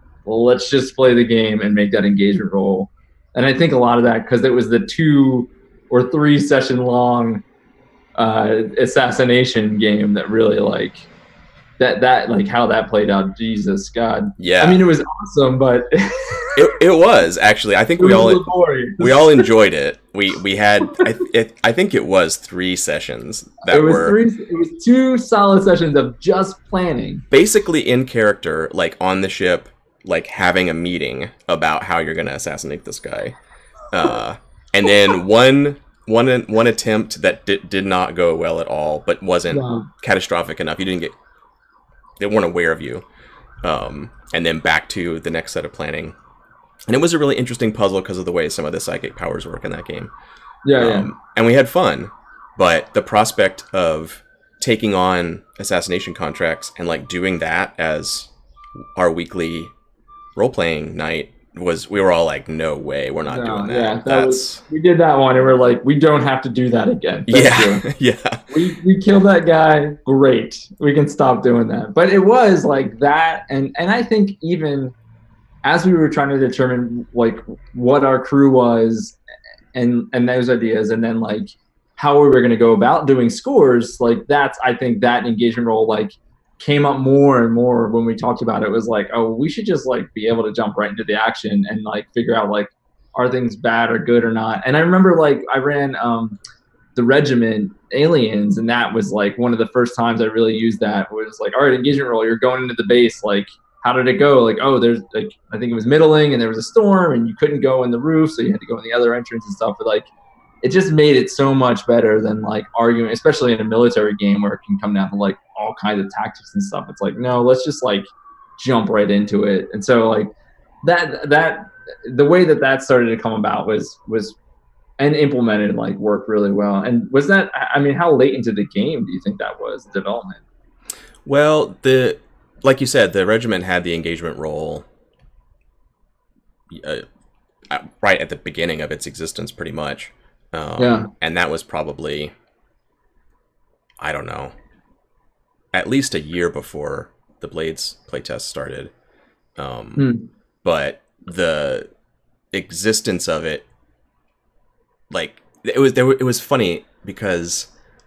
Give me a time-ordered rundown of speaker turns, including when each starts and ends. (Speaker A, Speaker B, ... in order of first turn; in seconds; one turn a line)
Speaker A: 0.2-7.4
Speaker A: 8.2-11.1
Speaker A: 11.8-16.6
Speaker B: 14.4-14.8
Speaker B: 16.5-18.4
Speaker A: 18.0-19.5
Speaker B: 19.0-24.2
Speaker A: 23.6-27.2
Speaker B: 27.3-33.4
Speaker B: 33.9-41.1
Speaker A: 39.5-39.9
Speaker B: 42.2-43.0
Speaker B: 43.6-46.1
Speaker B: 46.9-50.1
Speaker A: 50.6-51.1
Speaker B: 50.8-58.3
Speaker B: 59.0-59.7
Speaker B: 60.4-64.6
Speaker A: 63.3-67.8
Speaker B: 67.3-68.5
Speaker A: 68.5-74.9
Speaker A: 75.6-79.2
Speaker A: 79.7-96.4
Speaker A: 97.0-110.1
Speaker A: 110.6-118.1
Speaker A: 118.6-124.4
Speaker A: 125.0-130.4
Speaker B: 131.2-134.8
Speaker B: 136.7-137.0
Speaker B: 137.7-142.3
Speaker A: 140.8-141.1
Speaker B: 144.0-144.5
Speaker B: 145.7-148.9
Speaker B: 149.6-150.1
Speaker A: 150.0-150.3
Speaker B: 150.6-151.9
Speaker B: 152.5-153.7
Speaker B: 155.1-157.7